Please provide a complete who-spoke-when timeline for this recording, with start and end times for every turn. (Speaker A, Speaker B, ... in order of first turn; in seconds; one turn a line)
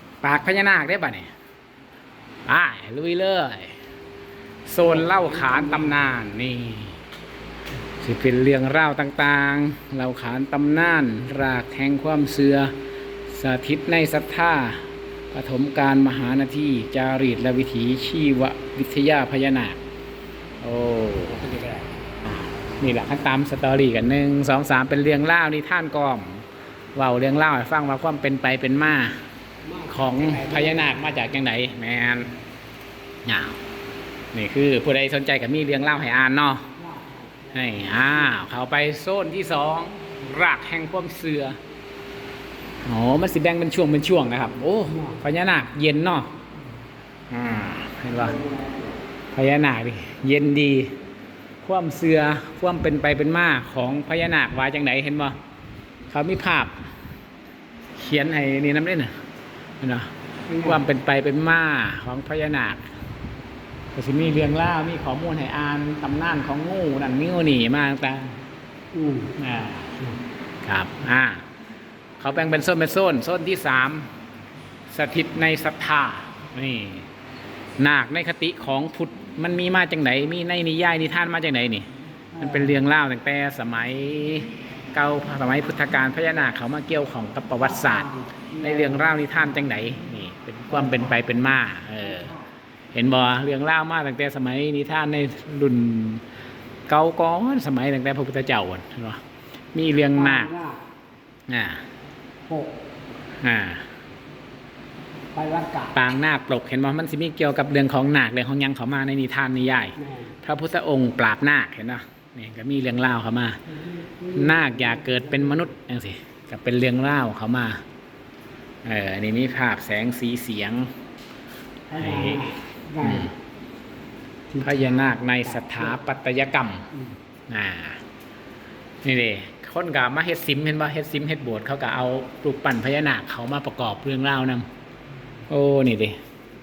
Speaker A: 0.2-1.3
Speaker A: 2.5-3.8
Speaker A: 4.7-7.0
Speaker B: 4.9-6.0
Speaker A: 8.0-12.8
Speaker A: 13.3-19.8
Speaker A: 20.6-29.2
Speaker B: 29.7-31.2
Speaker A: 29.8-32.4
Speaker A: 33.2-33.6
Speaker A: 34.3-36.7
Speaker B: 36.8-37.5
Speaker A: 37.5-41.6
Speaker A: 42.8-46.4
Speaker A: 47.3-48.4
Speaker A: 49.3-51.0
Speaker A: 51.6-55.4
Speaker A: 56.1-56.8
Speaker A: 58.0-59.2
Speaker A: 59.8-62.9
Speaker B: 60.5-60.7
Speaker A: 63.9-68.4
Speaker B: 68.9-69.3
Speaker A: 69.3-71.4
Speaker A: 72.2-74.1
Speaker A: 74.9-77.1
Speaker A: 77.8-92.3
Speaker B: 87.8-89.1
Speaker A: 92.9-96.2
Speaker A: 96.9-99.2
Speaker A: 99.7-100.5
Speaker B: 100.1-100.8
Speaker A: 101.5-101.8
Speaker B: 102.5-102.8
Speaker A: 103.4-103.9
Speaker B: 105.3-105.9
Speaker A: 105.9-113.6
Speaker B: 114.0-115.1
Speaker A: 114.2-117.8
Speaker A: 118.8-120.9
Speaker B: 121.9-123.3
Speaker A: 122.0-123.3
Speaker B: 124.5-125.8
Speaker A: 124.6-126.9
Speaker A: 127.5-128.0
Speaker A: 129.0-134.7
Speaker A: 135.5-136.2